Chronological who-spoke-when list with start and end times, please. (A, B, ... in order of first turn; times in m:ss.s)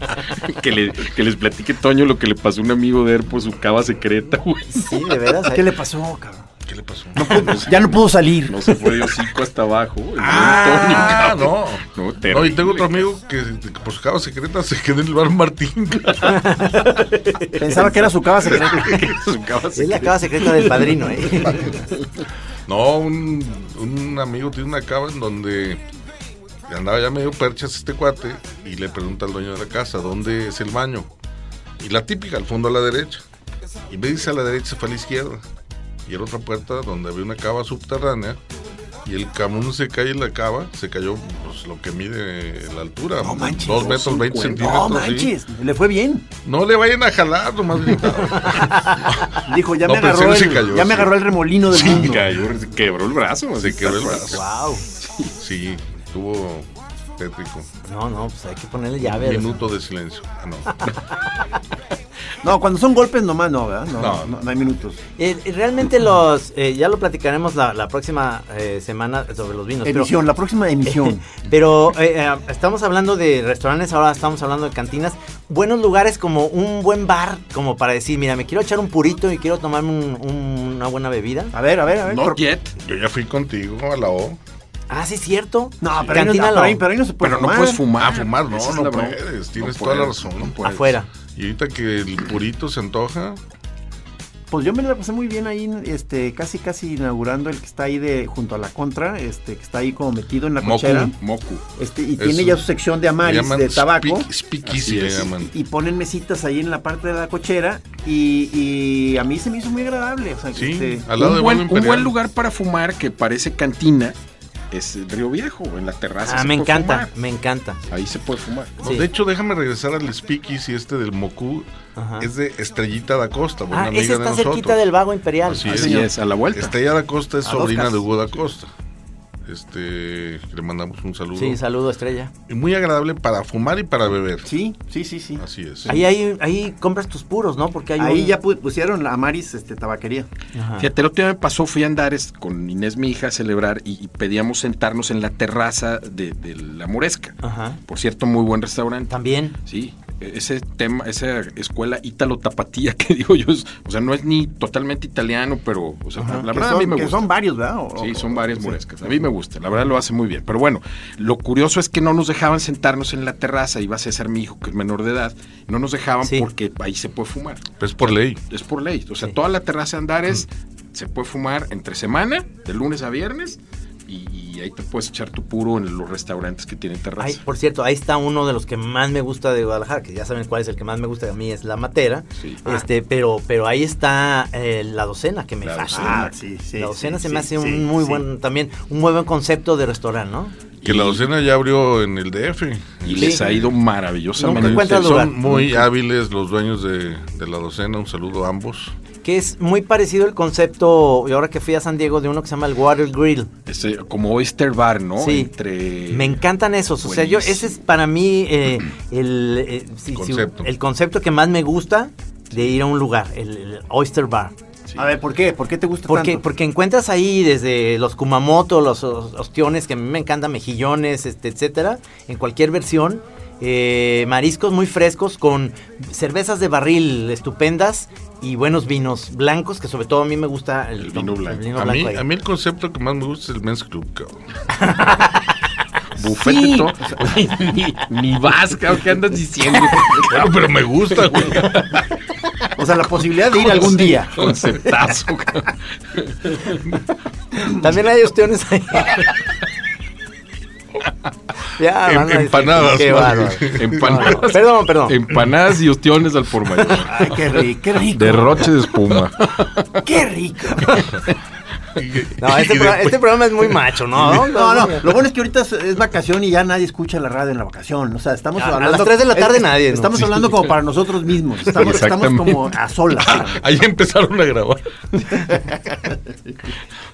0:00.4-0:05.1 A
0:04.7-0:05.7 B
0:05.5-0:06.5 C
0:06.7-0:07.7 D
0:07.2-0:09.1 C
0:07.2-0:13.1 A
0:10.2-0:11.3 C
0:10.2-0:16.4 D
0:16.3-0:17.6 B
0:17.6-0:19.1 C
0:18.4-0:21.7 A
0:19.8-0:21.8 B
0:22.7-0:25.8 D
0:26.7-0:31.1 D
0:31.8-0:33.2 D
0:33.9-0:35.4 D
0:36.1-0:38.4 D
0:39.0-0:45.3 D
0:43.2-0:44.0 C
0:43.7-0:44.7 A
0:44.6-0:46.3 C
0:46.4-0:52.2 D
0:48.5-0:49.0 B
0:49.4-0:52.2 C
0:51.7-0:54.4 A
0:53.6-0:54.4 D
0:54.3-0:54.8 B
0:55.0-0:55.3 A
0:55.4-0:57.7 D
0:57.8-0:59.6 B
0:59.0-1:00.9 D
1:02.4-1:05.0 C
1:04.0-1:04.3 D
1:05.2-1:10.1 B
1:09.8-1:11.2 C
1:10.8-1:21.5 B
1:21.5-1:22.4 C
1:22.0-1:22.7 A
1:22.8-1:24.4 D
1:24.9-1:26.8 B
1:25.8-1:27.8 C
1:27.2-1:31.0 A
1:28.0-1:30.6 D
1:30.6-1:31.1 B
1:31.4-1:33.4 D
1:34.5-1:41.2 C
1:40.6-1:41.1 D
1:41.2-1:41.6 A
1:41.8-1:44.3 C
1:42.2-1:42.6 D
1:43.2-1:45.5 D
1:44.6-1:45.3 A
1:45.4-1:51.1 C
1:50.5-1:52.2 D
1:51.2-1:54.2 A
1:54.7-1:57.1 A
1:56.2-1:57.8 B
1:57.9-1:58.8 A
1:58.8-2:01.7 D
2:02.0-2:02.3 B
2:02.2-2:04.8 D
2:03.7-2:05.8 B
2:05.4-2:08.7 D
2:05.6-2:06.7 A
2:05.7-2:06.1 C
2:07.5-2:08.0 C
2:09.5-2:11.6 D
2:11.4-2:12.3 B
2:12.5-2:14.5 D
2:14.4-2:16.0 C
2:15.4-2:15.9 D
2:15.9-2:18.4 B
2:18.0-2:20.3 C
2:20.5-2:20.9 B
2:20.8-2:37.3 A
2:27.4-2:27.8 B
2:29.1-2:29.6 B
2:36.2-2:38.8 C
2:38.0-2:47.8 A
2:47.8-2:48.4 D
2:48.5-2:57.4 A
2:57.2-3:10.6 B
3:02.4-3:02.8 A
3:05.6-3:06.3 A
3:05.9-3:08.2 C
3:10.8-3:11.2 A
3:10.8-3:13.8 D
3:13.0-3:15.3 A
3:14.4-3:15.7 B
3:14.4-3:19.0 D
3:19.2-3:23.5 B
3:23.7-3:26.4 A
3:25.2-3:25.5 B
3:26.1-3:34.5 B
3:27.0-3:27.8 A
3:30.1-3:30.7 D
3:35.0-3:36.4 C
3:36.1-3:52.2 B
3:51.0-3:51.7 A
3:51.8-3:54.4 D
3:54.8-3:55.4 B
3:56.2-4:02.0 A
3:56.4-3:56.9 C
4:00.1-4:01.9 D
4:02.8-4:04.6 C
4:03.5-4:06.9 A
4:07.7-4:09.3 B
4:11.8-4:15.2 B
4:12.0-4:14.4 D
4:13.7-4:17.4 A
4:17.1-4:18.7 C
4:18.1-4:20.0 A
4:20.0-4:21.2 C
4:22.0-4:23.2 D
4:22.4-4:25.1 B
4:24.2-4:33.6 C
4:28.6-4:30.2 B
4:30.2-4:30.7 A
4:31.7-4:32.8 A
4:33.2-4:35.4 D